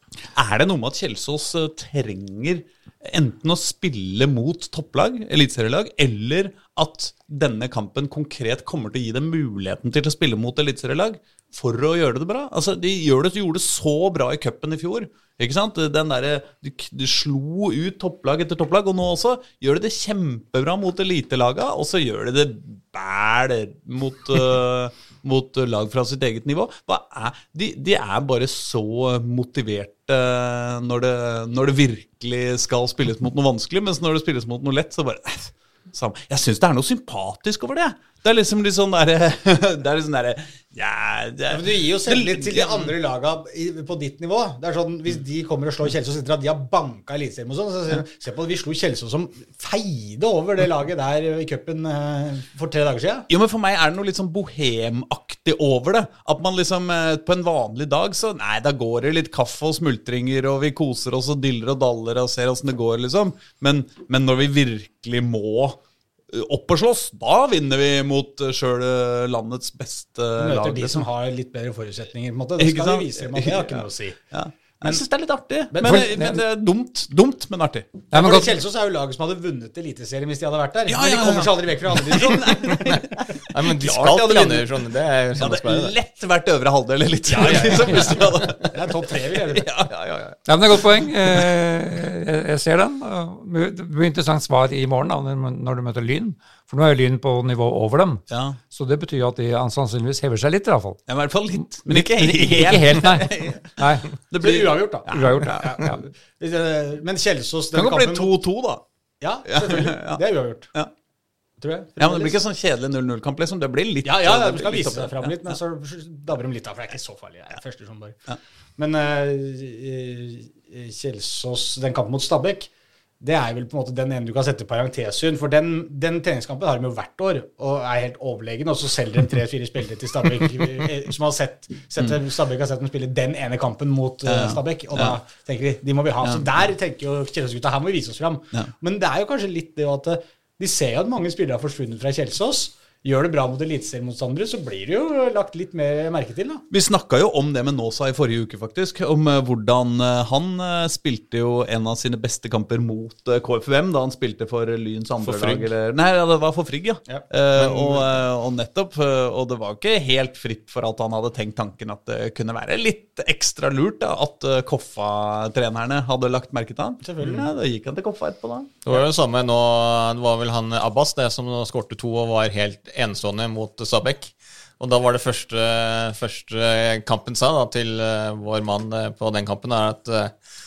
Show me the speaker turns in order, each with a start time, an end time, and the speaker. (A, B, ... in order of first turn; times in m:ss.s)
0:00.4-0:42.9 A
0:41.5-0:53.3 B
0:53.3-1:05.8 A
1:06.3-1:11.1 A
1:10.4-1:14.2 B
1:12.6-1:18.0 A
1:15.7-1:16.2 B
1:15.8-1:16.4 C
1:18.1-1:23.0 B
1:18.1-1:18.6 C
1:20.9-1:30.4 A
1:23.5-1:26.0 D
1:27.3-1:29.8 B
1:27.4-1:28.2 D
1:30.5-1:41.0 C
1:38.3-1:38.6 A
1:41.1-1:45.9 A
1:41.8-1:44.1 C
1:44.4-1:48.3 B
1:45.1-1:46.0 C
1:47.7-1:48.8 A
1:49.2-1:50.7 B
1:49.5-1:50.9 A
1:51.6-1:52.4 B
1:52.0-1:55.6 A
1:54.0-1:58.2 B
1:58.8-2:02.7 B
2:03.2-2:26.6 B
2:14.3-2:15.2 A
2:26.7-2:48.9 A
2:35.2-2:35.7 D
2:37.6-2:38.2 D
2:47.0-2:47.5 B
2:48.8-3:00.4 D